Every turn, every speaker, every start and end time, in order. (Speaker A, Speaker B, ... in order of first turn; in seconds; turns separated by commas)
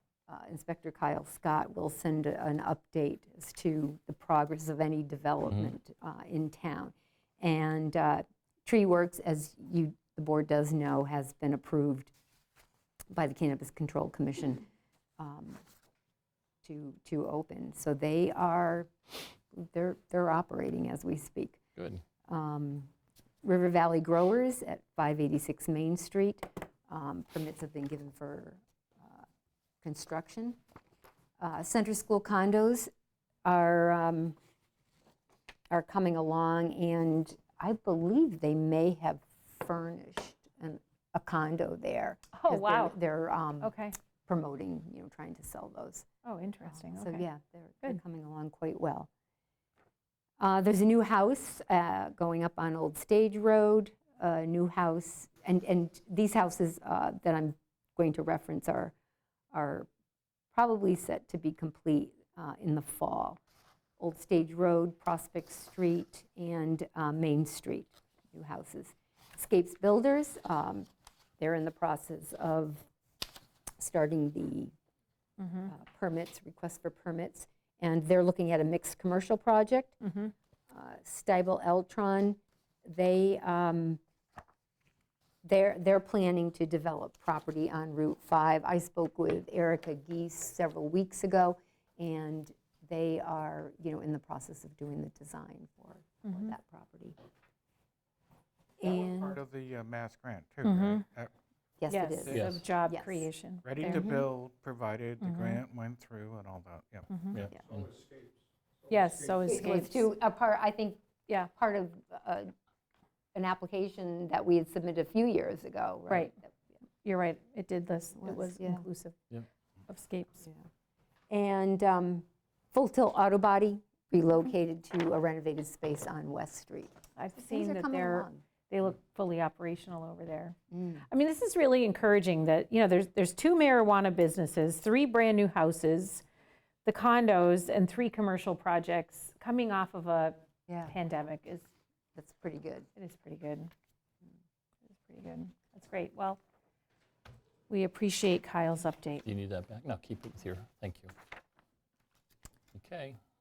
Speaker A: 0.3-12.1, Speaker A: 13.1-14.7, Speaker A: 15.2-15.6, Speaker A: 16.6-18.9, Speaker A: 19.5-21.6, Speaker B: 21.8-22.0, Speaker A: 22.3-22.9, Speaker A: 23.4-29.2, Speaker A: 29.8-30.6, Speaker A: 31.4-32.9, Speaker A: 33.4-34.4, Speaker A: 35.7-43.7, Speaker C: 42.3-43.0, Speaker C: 43.6-44.0, Speaker A: 44.2-46.0, Speaker C: 46.2-47.2, Speaker A: 46.7-49.1, Speaker A: 50.4-58.9, Speaker A: 59.5-59.9, Speaker A: 60.5-63.4, Speaker A: 64.0-70.9, Speaker A: 71.4-72.8, Speaker A: 73.8-74.7, Speaker C: 75.4-75.7, Speaker A: 75.7-80.0, Speaker C: 80.0-80.3, Speaker A: 80.7-84.0, Speaker A: 85.4-97.2, Speaker C: 96.2-96.5, Speaker A: 98.8-99.4, Speaker D: 98.8-101.3, Speaker C: 100.6-101.0, Speaker A: 101.8-103.3, Speaker C: 101.9-104.1, Speaker B: 102.3-102.6, Speaker D: 103.6-107.1, Speaker A: 103.8-104.3, Speaker C: 105.2-105.6, Speaker C: 107.1-107.5, Speaker B: 107.3-108.0, Speaker C: 108.9-110.1, Speaker A: 109.4-112.5, Speaker A: 113.3-116.5, Speaker C: 116.1-116.3, Speaker C: 117.0-119.2, Speaker A: 118.2-118.8, Speaker C: 119.9-120.5, Speaker A: 121.3-128.4, Speaker C: 127.2-130.6, Speaker A: 130.7-131.0, Speaker C: 131.1-136.2, Speaker C: 136.8-141.7, Speaker A: 140.7-140.9, Speaker A: 142.1-142.9, Speaker C: 142.9-143.7, Speaker C: 144.9-146.4, Speaker C: 147.7-149.2, Speaker B: 149.2-151.1, Speaker B: 152.7-153.2